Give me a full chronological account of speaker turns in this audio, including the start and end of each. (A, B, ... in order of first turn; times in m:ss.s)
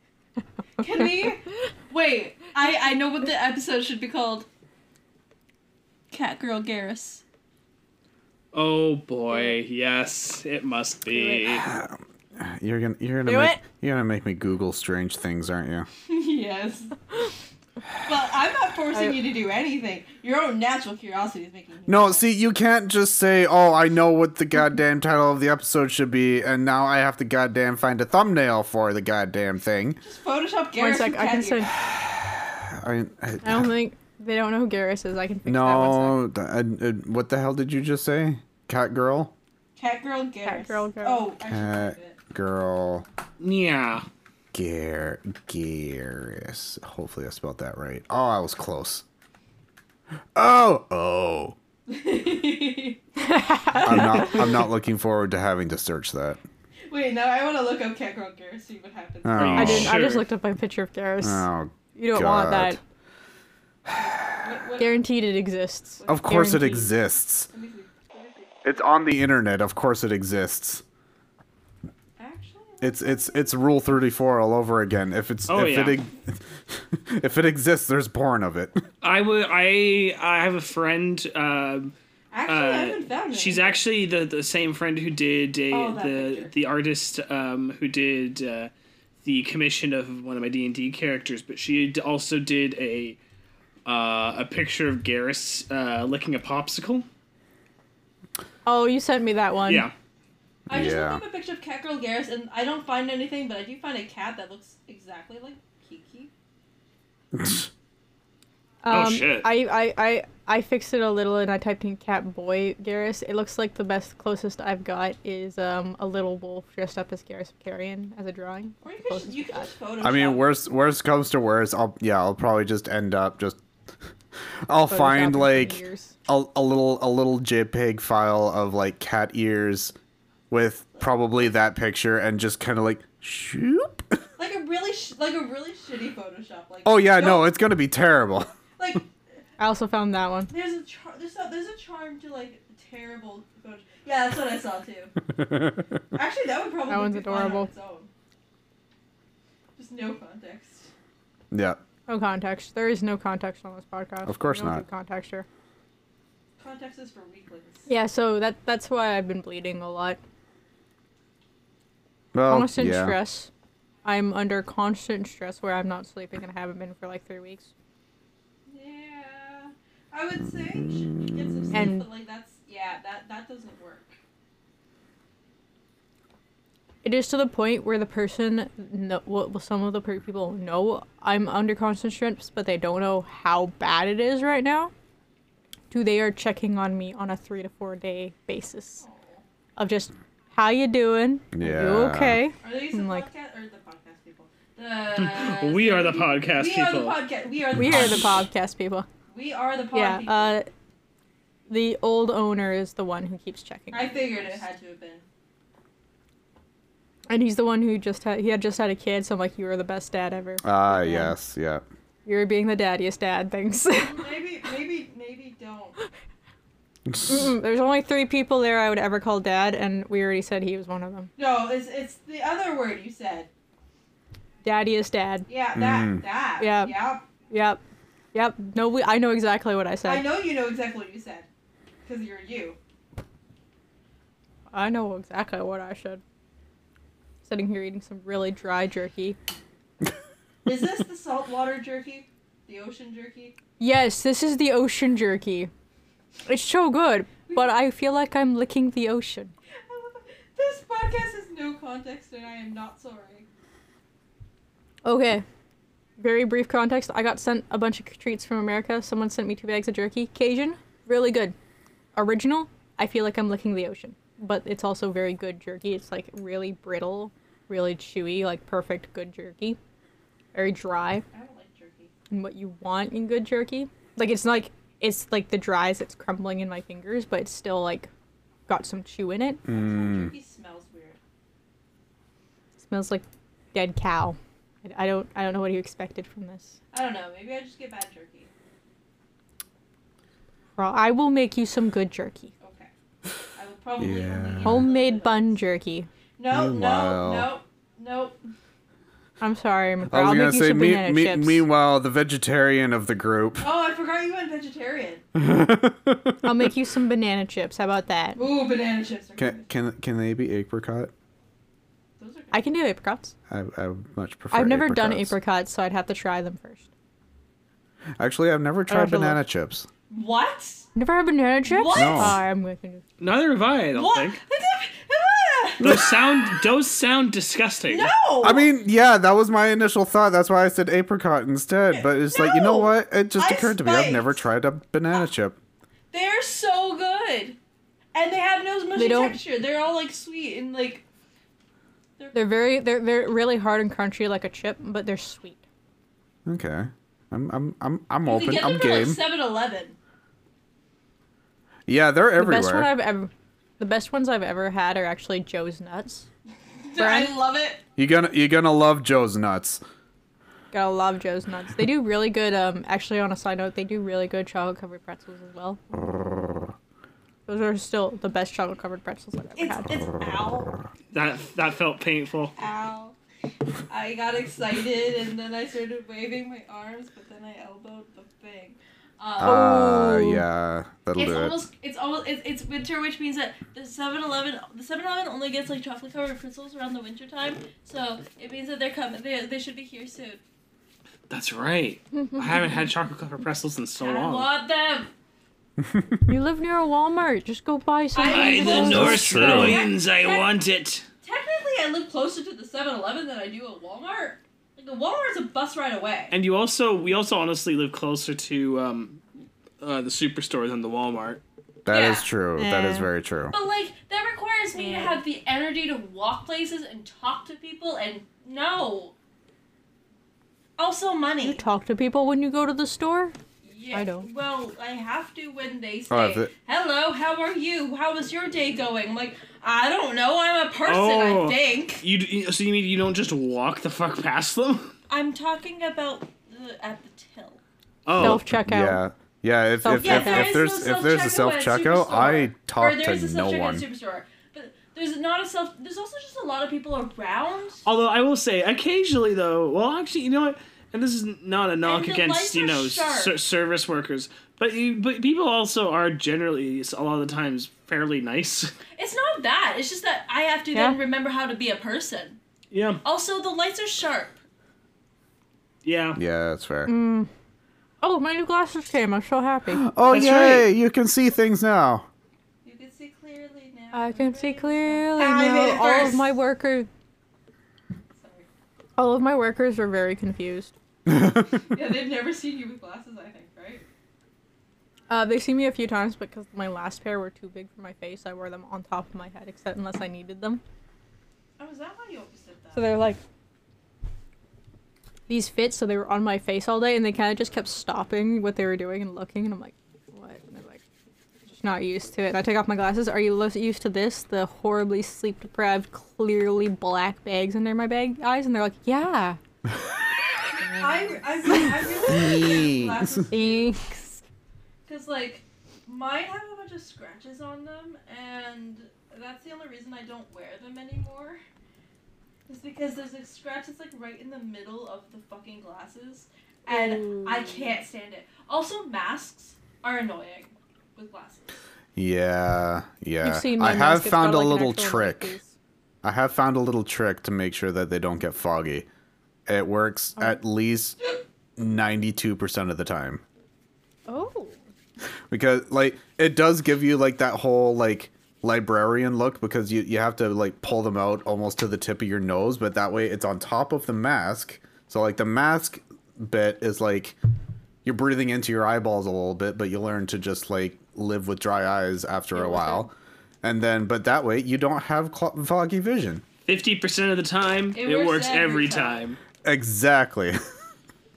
0:00.8-0:04.5 A
0:06.1-0:07.2 A
0:08.5-0:11.7 B
0:11.1-0:11.5 C
0:11.6-0:15.9 D
0:13.3-0:13.6 C
0:16.0-0:17.0 A
0:18.0-0:22.3 A
0:21.9-0:30.0 D
0:30.0-0:31.8 A
0:30.8-0:31.7 C
0:31.9-0:33.7 D
0:33.4-0:36.2 C
0:35.5-0:39.3 D
0:39.8-0:42.2 A
0:40.4-0:41.3 C
0:41.5-0:43.1 D
0:43.4-0:44.1 B
0:44.5-0:49.0 D
0:50.4-0:51.6 D
0:51.9-0:53.0 A
0:53.2-0:54.4 C
0:53.8-0:56.4 D
0:53.8-0:54.4 A
0:56.9-0:59.8 A
0:59.2-1:00.0 D
0:59.4-1:00.3 B
0:59.6-1:02.8 C
1:01.2-1:02.8 D
1:03.9-1:05.0 A
1:04.8-1:06.9 C
1:06.0-1:06.4 A
1:06.1-1:07.5 D
1:07.5-1:08.9 A
1:08.6-1:10.8 D
1:12.2-1:13.9 A
1:12.8-1:18.8 D
1:15.5-1:16.0 B
1:19.0-1:21.9 B
1:22.3-1:23.8 A
1:22.5-1:28.7 B
1:25.7-1:26.5 A
1:29.2-1:33.2 B
1:33.9-1:37.1 B
1:38.7-1:39.9 C
1:39.7-1:39.9 B
1:40.7-1:41.2 D
1:40.7-1:46.3 A
1:47.4-1:47.7 D
1:48.8-1:59.7 C
1:48.9-1:49.5 B
1:58.8-2:00.5 A
2:00.0-2:03.6 D
2:04.7-2:10.0 D
2:04.9-2:06.2 C
2:10.5-2:14.2 D
2:14.4-2:17.5 A
2:16.8-2:18.5 D
2:18.8-2:19.1 A
2:19.6-2:20.5 C
2:20.5-2:25.1 A
2:25.4-2:25.9 D
2:26.1-2:28.1 A
2:26.9-2:27.7 C
2:29.8-2:30.9 A
2:31.5-2:31.8 D
2:32.1-2:35.5 C
2:34.3-2:34.8 D
2:36.6-2:37.9 A
2:37.9-2:40.2 C
2:42.3-2:43.2 D
2:42.5-2:43.5 C
2:44.0-2:47.7 C
2:48.7-2:54.2 A
2:51.7-2:52.1 C
2:57.0-3:04.9 C
3:05.9-3:09.0 C
3:09.0-3:09.4 A
3:09.8-3:13.3 C
3:11.5-3:12.4 D
3:12.6-3:18.4 A
3:15.2-3:17.2 B
3:17.8-3:19.1 C
3:19.3-3:20.6 A
3:19.9-3:20.7 C
3:21.7-3:24.6 C
3:23.9-3:25.3 A
3:27.3-3:31.4 C
3:30.6-3:31.8 D
3:32.3-3:34.2 C
3:34.0-3:36.0 A
3:37.3-3:41.3 C
3:41.4-3:43.5 A
3:44.6-3:45.5 C
3:45.5-3:47.2 A
3:45.8-3:46.2 D
3:46.6-3:47.8 C
3:48.3-3:50.2 C
3:50.0-3:51.5 A
3:52.0-3:52.8 A
3:54.7-3:56.2 C
3:57.4-3:59.4 C
4:00.6-4:03.6 A
4:03.8-4:05.7 C
4:06.5-4:09.5 C
4:09.8-4:13.5 A
4:15.0-4:15.4 C
4:16.2-4:21.6 C
4:22.2-4:29.8 C
4:30.5-4:31.2 C
4:31.3-4:32.1 A
4:32.3-4:38.1 C
4:38.7-4:39.6 C
4:39.7-4:40.3 D
4:39.7-4:41.2 A
4:42.8-4:46.8 C
4:46.9-4:48.5 A
4:50.8-4:52.5 C
4:52.6-4:52.9 A
4:53.6-4:55.6 A
4:54.0-4:54.9 D
4:54.6-4:56.1 C
4:56.4-4:58.5 A
4:56.5-4:57.5 D
4:59.4-5:01.6 C
5:00.1-5:03.7 D
5:03.6-5:05.2 A
5:05.4-5:06.5 D
5:06.4-5:08.4 C
5:08.4-5:09.7 A
5:09.4-5:11.1 D
5:12.2-5:12.7 A
5:12.5-5:13.3 C
5:13.5-5:15.4 D
5:14.5-5:16.9 C
5:18.2-5:19.9 D
5:18.9-5:19.4 C
5:20.1-5:20.9 A
5:21.0-5:23.0 C
5:21.7-5:22.4 A
5:21.9-5:22.4 D
5:23.2-5:24.4 B
5:23.9-5:26.7 A
5:25.8-5:28.1 B
5:27.9-5:28.7 A
5:28.4-5:35.6 D
5:31.9-5:34.4 A
5:36.1-5:37.6 A
5:38.2-5:41.0 A
5:39.0-5:39.4 C
5:42.2-5:42.4 A
5:42.3-5:45.6 C
5:46.5-5:49.2 D
5:48.2-5:50.0 A
5:51.9-5:52.9 D
5:52.4-5:56.3 C
5:56.8-5:57.8 A
5:57.0-5:57.4 C
5:58.0-5:59.8 D
6:00.7-6:05.8 C
6:05.9-6:06.7 D
6:07.5-6:10.0 C
6:09.6-6:10.8 A
6:11.1-6:12.5 B
6:12.6-6:13.2 A
6:13.9-6:19.6 A
6:19.4-6:21.6 D
6:19.4-6:20.4 C
6:21.2-6:30.4 A
6:31.3-6:34.5 B
6:34.0-6:35.1 A
6:36.3-6:39.6 C
6:38.2-6:40.6 A
6:38.2-6:41.0 B
6:38.8-6:39.8 D
6:41.2-6:46.4 A
6:46.3-6:49.2 B
6:49.8-6:51.4 B
6:51.8-6:53.6 D
6:51.9-6:52.3 A
6:52.6-6:53.1 C
6:53.5-6:59.2 A
6:54.8-6:55.2 C
7:00.8-7:01.6 A
7:01.4-7:03.4 C
7:03.6-7:12.0 A
7:03.9-7:04.3 C
7:06.1-7:06.5 D
7:10.8-7:14.9 B
7:15.1-7:17.6 A
7:18.1-7:18.4 B
7:18.1-7:23.8 D
7:18.2-7:19.0 C
7:19.8-7:20.6 C
7:20.0-7:27.8 A
7:27.8-7:38.7 B
7:31.8-7:33.4 A
7:39.0-7:42.4 A
7:42.7-7:43.0 B
7:43.0-7:44.4 A
7:45.8-7:46.2 B
7:46.2-7:46.9 D
7:46.9-7:47.3 C
7:48.0-7:49.9 C
7:49.7-7:52.1 D
7:50.1-7:50.7 B
7:52.6-7:56.3 A
7:53.9-7:56.9 C
7:58.1-7:58.5 A
7:59.0-8:00.7 C
8:01.1-8:01.4 D
8:01.6-8:03.8 A
8:05.1-8:10.6 C
8:11.6-8:12.9 A
8:12.7-8:13.2 C
8:15.3-8:20.8 C
8:21.5-8:29.4 C
8:30.6-8:32.3 C
8:30.8-8:33.8 A
8:32.1-8:33.2 D
8:33.3-8:34.2 C
8:34.9-8:41.4 A
8:42.5-8:51.5 A
8:46.7-8:47.8 C
8:52.0-8:55.4 D
8:53.2-8:55.5 C
8:56.0-8:58.9 D
8:59.5-9:01.0 D
9:01.6-9:03.2 D
9:04.1-9:04.6 C
9:05.3-9:17.2 D
9:17.8-9:26.2 D
9:22.3-9:22.9 C
9:26.5-9:29.2 B
9:27.7-9:29.1 A
9:29.4-9:30.4 D